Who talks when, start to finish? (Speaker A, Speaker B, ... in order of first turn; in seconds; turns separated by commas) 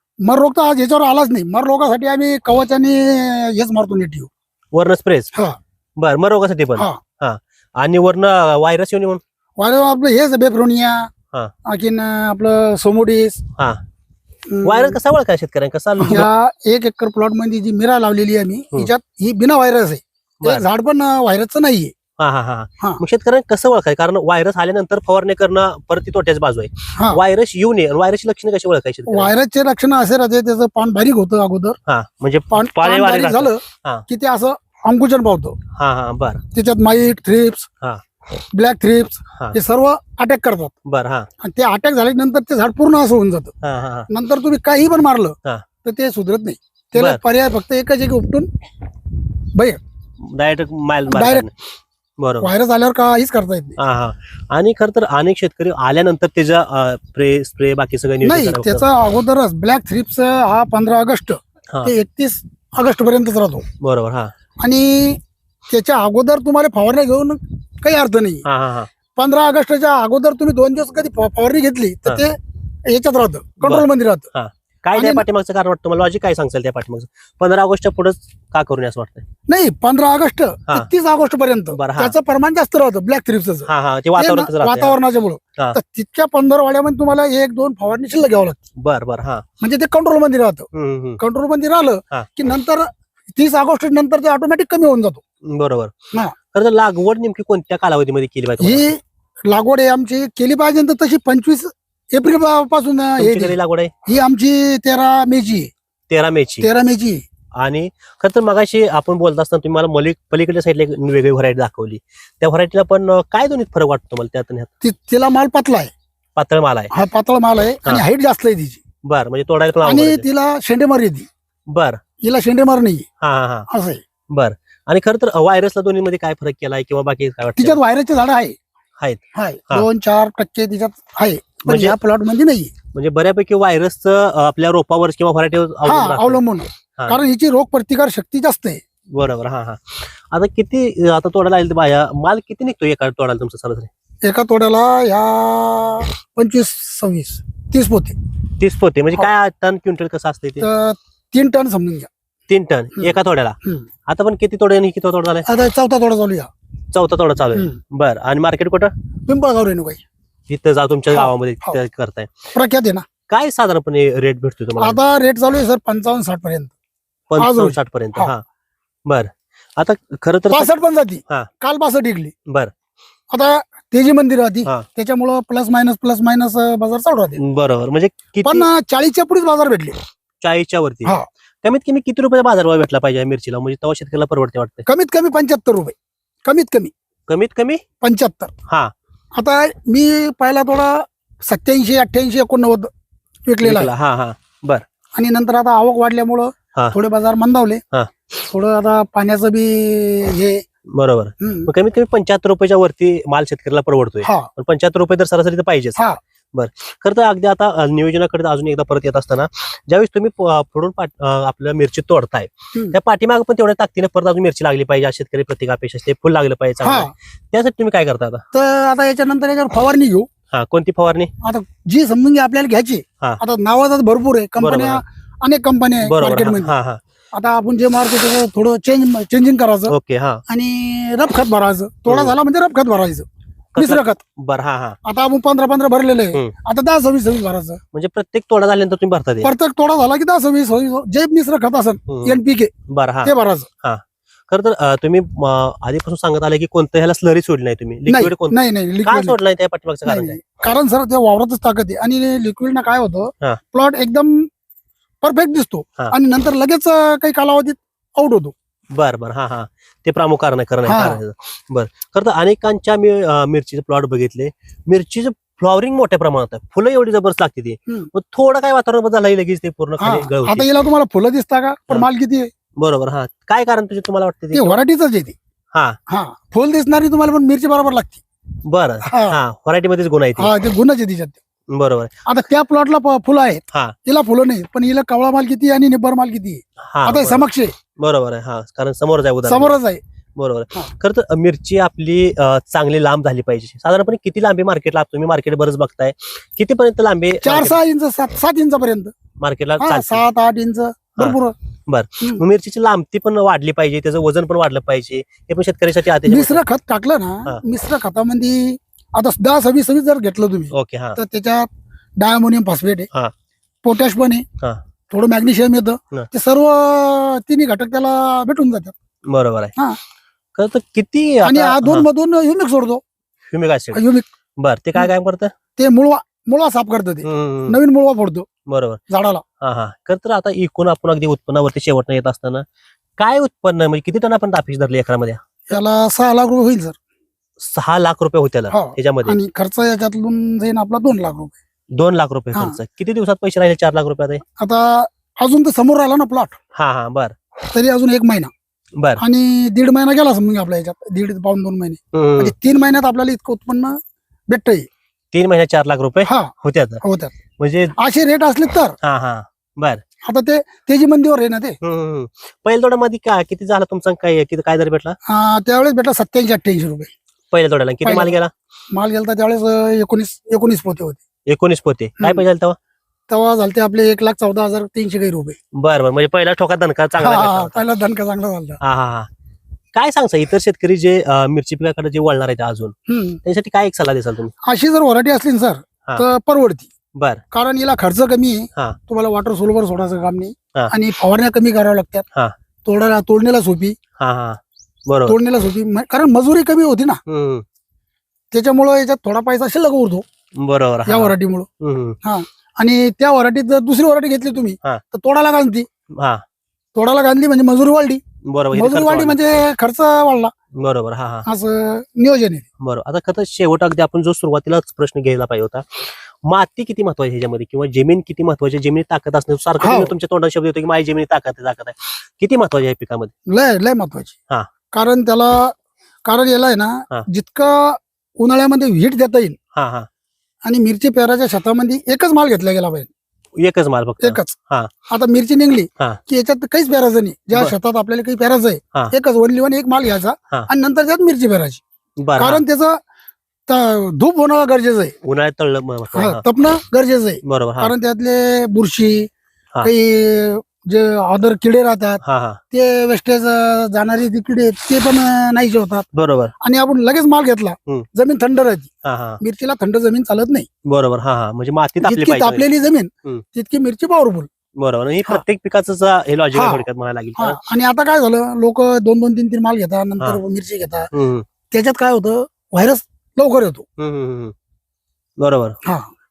Speaker A: 0.2-4.3, Speaker B: 4.7-5.3, Speaker B: 6.0-9.2, Speaker A: 9.6-11.1, Speaker A: 11.7-13.4, Speaker A: 14.5-15.0, Speaker B: 14.6-16.3, Speaker A: 16.0-21.9, Speaker B: 22.2-29.3, Speaker A: 29.1-31.8, Speaker B: 31.9-34.0, Speaker A: 32.5-35.6, Speaker B: 35.8-36.4, Speaker A: 36.5-37.7, Speaker A: 38.4-40.7, Speaker B: 40.9-41.3, Speaker A: 41.4-43.5, Speaker B: 43.6-44.1, Speaker A: 44.1-48.5, Speaker B: 47.0-47.2, Speaker A: 49.5-49.8, Speaker B: 50.2-51.5, Speaker A: 51.1-51.5, Speaker B: 52.2-52.5, Speaker A: 52.4-53.8, Speaker B: 53.8-58.9, Speaker A: 58.2-63.6, Speaker B: 63.8-64.3, Speaker A: 64.6-68.4, Speaker B: 68.4-68.9, Speaker A: 69.2-74.3, Speaker B: 73.6-79.2, Speaker A: 74.9-75.3, Speaker A: 79.5-88.6, Speaker B: 81.8-82.2, Speaker B: 83.7-85.0, Speaker B: 88.8-89.4, Speaker A: 89.6-90.7, Speaker B: 90.7-91.2, Speaker A: 91.2-95.2, Speaker B: 95.5-95.9, Speaker B: 96.5-98.9, Speaker A: 98.6-105.7, Speaker B: 103.2-103.9, Speaker B: 106.1-106.7, Speaker A: 106.6-107.2, Speaker B: 107.6-114.7, Speaker A: 114.8-115.9, Speaker B: 116.4-116.9, Speaker A: 116.9-118.8, Speaker B: 119.0-120.2, Speaker A: 119.8-121.3, Speaker B: 121.7-122.0, Speaker A: 122.2-123.1, Speaker B: 123.2-123.7, Speaker A: 123.7-124.0, Speaker B: 124.3-127.8, Speaker A: 127.6-128.6, Speaker B: 129.0-129.9, Speaker A: 129.3-132.7, Speaker B: 131.7-131.9, Speaker B: 132.9-136.4, Speaker A: 135.8-138.8, Speaker B: 139.1-143.9, Speaker A: 144.2-148.2, Speaker B: 148.6-150.7, Speaker A: 150.6-152.1, Speaker B: 152.5-155.5, Speaker A: 153.0-153.9, Speaker A: 155.5-156.5, Speaker B: 156.9-158.9, Speaker A: 159.2-160.0, Speaker B: 160.5-162.5, Speaker A: 161.1-161.8, Speaker A: 162.5-163.1, Speaker B: 163.3-165.0, Speaker A: 164.8-166.7, Speaker B: 167.3-168.4, Speaker A: 167.4-168.3, Speaker B: 169.1-170.8, Speaker A: 170.5-172.3, Speaker B: 172.5-172.7, Speaker A: 173.3-177.4, Speaker B: 177.4-178.7, Speaker A: 178.4-180.0, Speaker B: 180.4-184.9, Speaker A: 184.9-186.9, Speaker B: 187.3-187.8, Speaker A: 188.0-188.5, Speaker B: 188.7-188.9, Speaker A: 189.3-192.9, Speaker A: 193.5-193.9, Speaker B: 193.6-194.8, Speaker A: 195.1-200.6, Speaker B: 200.9-206.0, Speaker A: 201.4-201.7, Speaker A: 204.2-204.5, Speaker B: 206.5-218.4, Speaker A: 216.8-217.1, Speaker A: 218.5-220.3, Speaker B: 220.5-221.3, Speaker A: 221.4-226.8, Speaker B: 224.6-225.0, Speaker B: 226.0-227.0, Speaker A: 227.3-229.9, Speaker B: 229.9-230.4, Speaker A: 230.5-233.2, Speaker B: 232.1-232.3, Speaker B: 233.8-235.0, Speaker A: 233.8-234.2, Speaker A: 235.0-237.8, Speaker B: 237.9-239.5, Speaker A: 239.4-242.7, Speaker B: 242.1-250.4, Speaker A: 243.2-243.7, Speaker A: 248.1-249.4, Speaker A: 250.1-254.5, Speaker A: 255.2-258.5, Speaker B: 258.9-270.7, Speaker A: 260.9-261.2, Speaker A: 270.0-272.5, Speaker B: 272.8-274.8, Speaker A: 274.5-275.4, Speaker A: 276.1-278.2, Speaker B: 278.6-280.5, Speaker A: 279.0-279.4, Speaker A: 280.4-281.4, Speaker B: 281.7-282.1, Speaker A: 282.2-287.7, Speaker B: 286.8-289.8, Speaker A: 289.4-290.0, Speaker B: 290.4-297.8, Speaker A: 297.4-299.1, Speaker B: 299.4-300.2, Speaker A: 299.8-301.6, Speaker B: 301.2-306.6, Speaker A: 306.3-313.1, Speaker B: 310.7-311.2, Speaker A: 313.8-314.5, Speaker A: 315.1-319.0, Speaker B: 319.3-319.7, Speaker B: 320.6-322.1, Speaker A: 321.4-323.0, Speaker B: 323.5-324.0, Speaker A: 323.9-324.3, Speaker B: 324.6-325.5, Speaker A: 325.8-328.5, Speaker B: 327.2-327.8, Speaker B: 328.7-329.0, Speaker A: 329.1-329.4, Speaker B: 329.6-332.6, Speaker B: 333.2-335.4, Speaker A: 335.7-337.0, Speaker B: 337.6-339.4, Speaker A: 338.7-341.6, Speaker B: 341.9-344.4, Speaker A: 342.5-342.8, Speaker A: 344.6-346.6, Speaker B: 346.8-347.3, Speaker A: 347.7-348.5, Speaker B: 349.0-349.2, Speaker A: 349.2-354.9, Speaker B: 352.1-352.5, Speaker B: 355.3-357.0, Speaker A: 356.2-357.3, Speaker B: 357.6-358.0, Speaker A: 358.0-359.0, Speaker B: 359.0-360.0, Speaker A: 360.2-361.8, Speaker B: 361.8-365.2, Speaker A: 365.2-367.1, Speaker B: 367.5-368.5, Speaker A: 368.0-368.4, Speaker A: 368.9-371.2, Speaker B: 371.5-372.8, Speaker A: 373.3-375.6, Speaker B: 375.7-377.8, Speaker A: 377.2-378.8, Speaker B: 378.8-379.3, Speaker B: 379.9-384.5, Speaker A: 383.1-383.4, Speaker A: 384.6-386.9, Speaker B: 387.1-387.4, Speaker A: 387.5-392.2, Speaker A: 392.9-394.0, Speaker B: 394.2-395.4, Speaker A: 395.3-397.2, Speaker B: 397.3-397.6, Speaker A: 398.5-400.2, Speaker B: 400.6-402.2, Speaker A: 401.1-401.7, Speaker A: 402.2-405.9, Speaker B: 406.2-406.4, Speaker A: 406.9-408.2, Speaker B: 408.4-409.4, Speaker A: 408.7-410.5, Speaker B: 410.8-411.5, Speaker A: 411.5-412.6, Speaker B: 412.8-423.3, Speaker A: 419.8-420.1, Speaker A: 423.5-424.4, Speaker A: 424.9-429.6, Speaker B: 429.7-430.1, Speaker A: 430.6-433.1, Speaker B: 433.6-434.9, Speaker A: 434.2-434.6, Speaker A: 435.1-441.8, Speaker B: 442.2-442.6, Speaker A: 442.4-443.0, Speaker A: 443.7-445.1, Speaker B: 445.2-446.4, Speaker A: 446.1-449.3, Speaker B: 447.4-447.9, Speaker A: 449.8-452.2, Speaker B: 452.2-452.6, Speaker A: 452.7-456.1, Speaker B: 456.1-456.5, Speaker A: 456.6-458.9, Speaker B: 459.1-459.4, Speaker A: 459.4-460.7, Speaker B: 460.9-462.6, Speaker A: 462.0-464.5, Speaker B: 464.8-467.6, Speaker A: 466.5-466.9, Speaker A: 467.4-471.1, Speaker B: 471.1-471.5, Speaker A: 471.7-473.9, Speaker B: 474.0-474.5, Speaker B: 475.4-475.8, Speaker A: 475.8-476.1